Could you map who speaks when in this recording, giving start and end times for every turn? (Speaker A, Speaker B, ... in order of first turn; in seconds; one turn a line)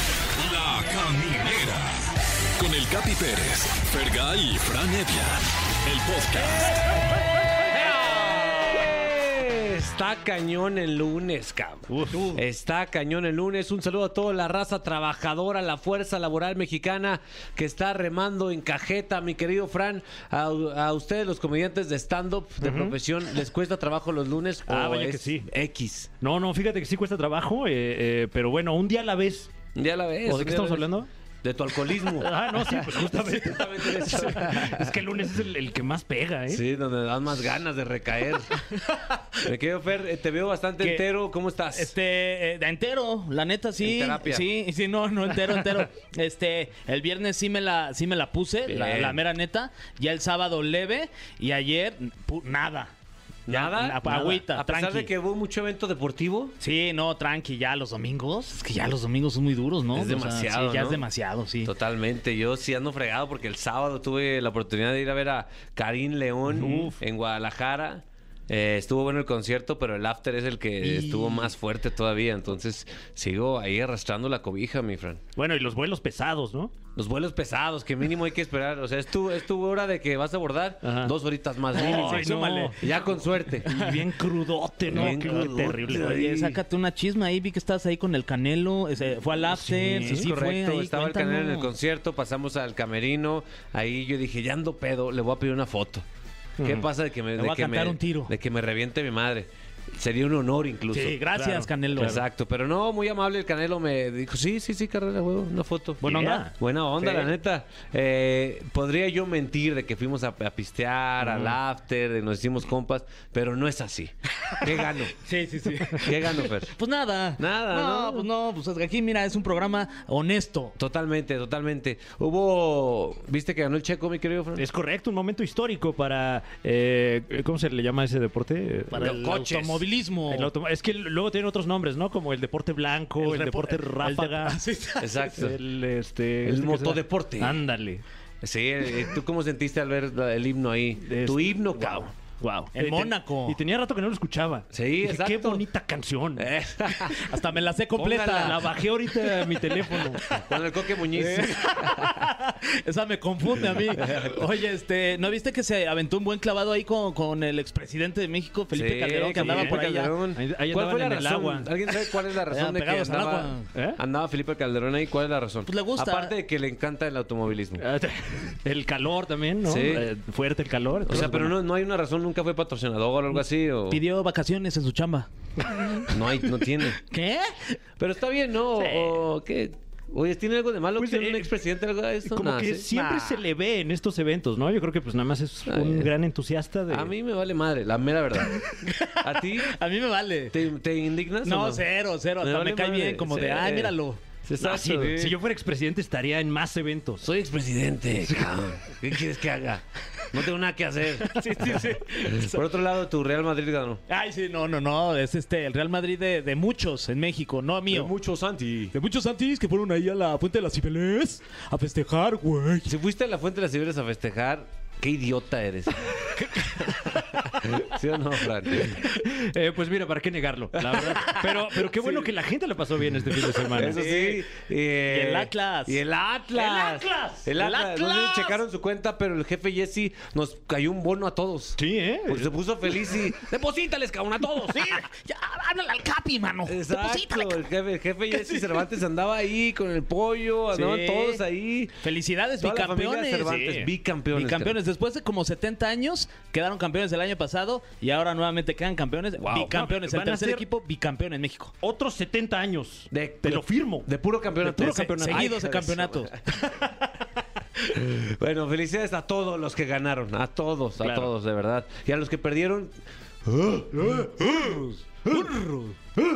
Speaker A: 0.3-2.0
Speaker A: 2.6-6.7
Speaker B: 7.7-26.1
Speaker C: 11.9-12.3
Speaker C: 22.6-23.0
Speaker C: 24.7-25.5
Speaker C: 26.2-29.5
Speaker B: 29.7-30.9
Speaker C: 30.2-31.1
Speaker B: 31.4-35.0
Speaker C: 32.0-36.6
Speaker B: 36.5-38.5
Speaker B: 39.4-41.9
Speaker D: 40.8-41.0
Speaker D: 41.7-52.9
Speaker B: 43.8-44.5
Speaker B: 48.6-49.2
Speaker B: 53.5-56.5
Speaker D: 53.5-55.1
Speaker D: 56.6-61.7
Speaker B: 59.9-61.0
Speaker B: 61.6-75.2
Speaker C: 66.5-67.0
Speaker D: 66.6-66.9
Speaker D: 70.8-71.5
Speaker C: 75.3-76.7
Speaker B: 76.9-83.7
Speaker C: 80.8-81.1
Speaker C: 81.7-83.0
Speaker D: 81.7-82.8
Speaker C: 83.6-86.1
Speaker D: 83.7-84.0
Speaker B: 84.9-86.6
Speaker D: 84.9-91.7
Speaker C: 89.5-90.3
Speaker B: 90.0-96.0
Speaker C: 96.6-96.8
Speaker B: 96.6-101.2
Speaker D: 97.3-98.3
Speaker D: 100.9-102.2
Speaker C: 101.3-102.2
Speaker B: 102.0-115.2
Speaker C: 106.0-106.5
Speaker D: 106.0-106.5
Speaker D: 107.0-107.3
Speaker C: 111.2-111.5
Speaker D: 115.2-116.1
Speaker B: 116.0-116.7
Speaker D: 116.7-120.8
Speaker B: 117.4-118.2
Speaker B: 120.8-124.6
Speaker C: 124.6-129.7
Speaker D: 128.9-130.5
Speaker B: 129.1-129.7
Speaker C: 130.3-134.6
Speaker D: 133.2-135.3
Speaker B: 135.0-135.6
Speaker C: 135.4-138.0
Speaker B: 136.4-137.6
Speaker B: 138.4-142.1
Speaker C: 141.0-146.4
Speaker D: 142.7-143.6
Speaker B: 144.7-145.6
Speaker B: 146.4-147.3
Speaker D: 147.2-148.6
Speaker B: 148.0-148.8
Speaker C: 148.3-150.2
Speaker D: 149.9-150.5
Speaker B: 150.3-152.2
Speaker D: 151.1-160.1
Speaker B: 153.9-154.4
Speaker B: 158.7-167.8
Speaker C: 159.2-159.8
Speaker C: 160.3-161.7
Speaker D: 162.5-163.7
Speaker C: 163.7-164.0
Speaker D: 165.7-166.3
Speaker C: 167.8-171.5
Speaker B: 169.6-170.1
Speaker B: 171.0-174.0
Speaker D: 173.9-176.1
Speaker B: 176.1-177.0
Speaker D: 177.0-177.8
Speaker B: 178.0-182.9
Speaker C: 178.8-179.2
Speaker C: 181.0-181.5
Speaker C: 182.2-187.1
Speaker D: 182.9-183.4
Speaker B: 185.7-186.1
Speaker B: 186.9-188.6
Speaker D: 188.8-190.5
Speaker B: 189.2-189.7
Speaker B: 190.5-191.8
Speaker D: 191.4-194.2
Speaker B: 192.4-195.3
Speaker C: 194.6-197.2
Speaker D: 195.0-195.3
Speaker B: 197.2-204.0
Speaker C: 198.2-198.6
Speaker D: 201.3-202.6
Speaker C: 201.4-201.8
Speaker D: 204.1-208.1
Speaker B: 207.9-208.9
Speaker D: 208.9-212.9
Speaker B: 212.9-219.1
Speaker C: 219.1-224.0
Speaker B: 220.8-222.2
Speaker B: 223.7-235.0
Speaker D: 223.9-224.5
Speaker D: 225.1-226.0
Speaker C: 226.5-227.5
Speaker D: 227.6-228.6
Speaker C: 231.8-232.5
Speaker D: 234.7-237.6
Speaker B: 236.7-241.9
Speaker D: 238.3-238.8
Speaker D: 240.7-241.4
Speaker D: 242.0-243.6
Speaker B: 242.6-244.7
Speaker C: 243.4-243.9
Speaker D: 244.3-251.7
Speaker B: 249.4-249.7
Speaker C: 249.6-250.7
Speaker C: 251.8-254.1
Speaker B: 253.1-256.0
Speaker C: 254.6-256.1
Speaker D: 254.7-256.3
Speaker B: 257.9-262.9
Speaker C: 261.0-261.3
Speaker B: 263.4-265.1
Speaker D: 265.3-265.9